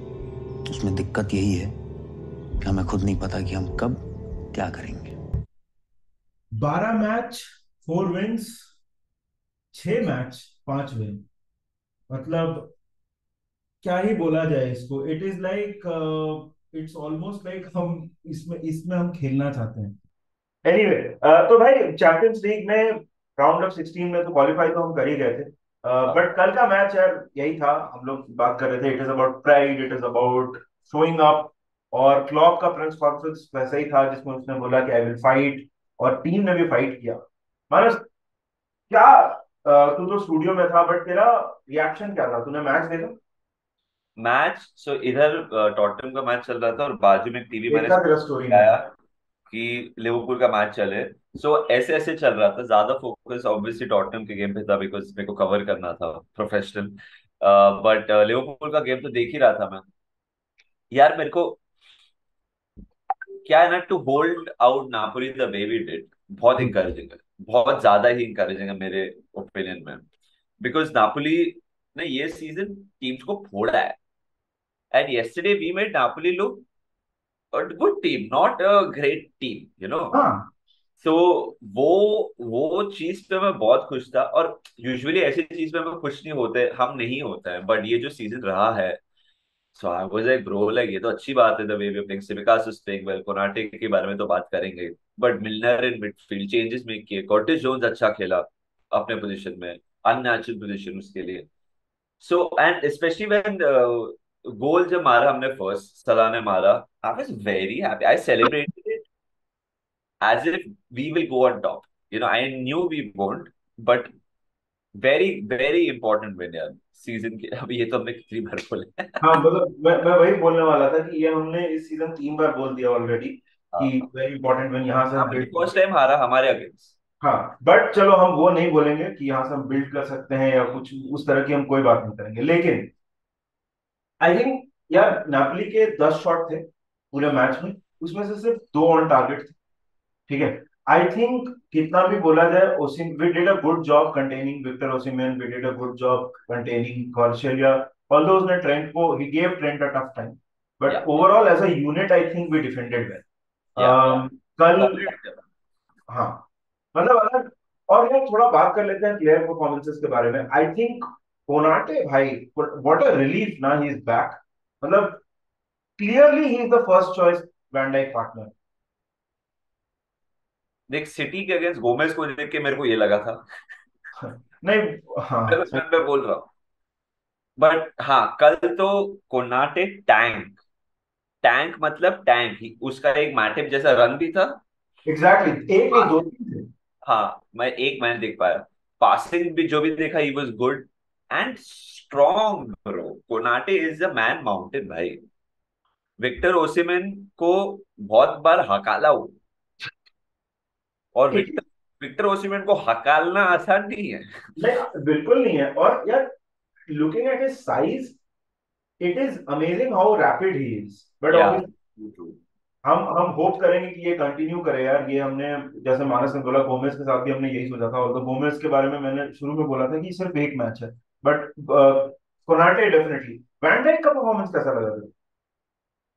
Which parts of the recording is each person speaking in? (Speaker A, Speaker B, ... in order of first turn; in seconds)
Speaker A: 0.7-1.7, 2.6-4.0, 4.5-5.1
Speaker B: 6.5-8.7, 9.7-11.2, 12.1-12.7, 13.8-19.9, 20.6-37.2, 37.7-38.0, 38.9-43.1, 47.7-48.8, 80.1-80.5, 119.2-125.7, 127.2-132.9, 134.2-139.5, 140.3-153.2, 153.8-155.1, 156.1-165.2, 166.0-168.5, 174.1-176.0, 185.0-186.7, 201.3-201.6, 204.6-206.3, 206.9-208.2, 209.0-211.7, 212.8-225.1
Speaker C: 26.0-26.3, 44.2-48.9, 49.5-59.8, 60.9-61.6, 63.4-70.1, 70.6-74.0, 74.9-76.6, 77.5-80.2, 81.0-89.0, 89.7-101.5, 102.2-109.0, 110.2-114.1, 115.0-119.3, 123.7-124.0, 125.2-127.0, 150.8-151.2, 153.8-155.4, 170.9-173.4, 175.5-176.5, 177.6-180.6, 181.4-184.6, 187.0-195.2, 196.2-199.3, 201.1-204.7, 211.3-212.4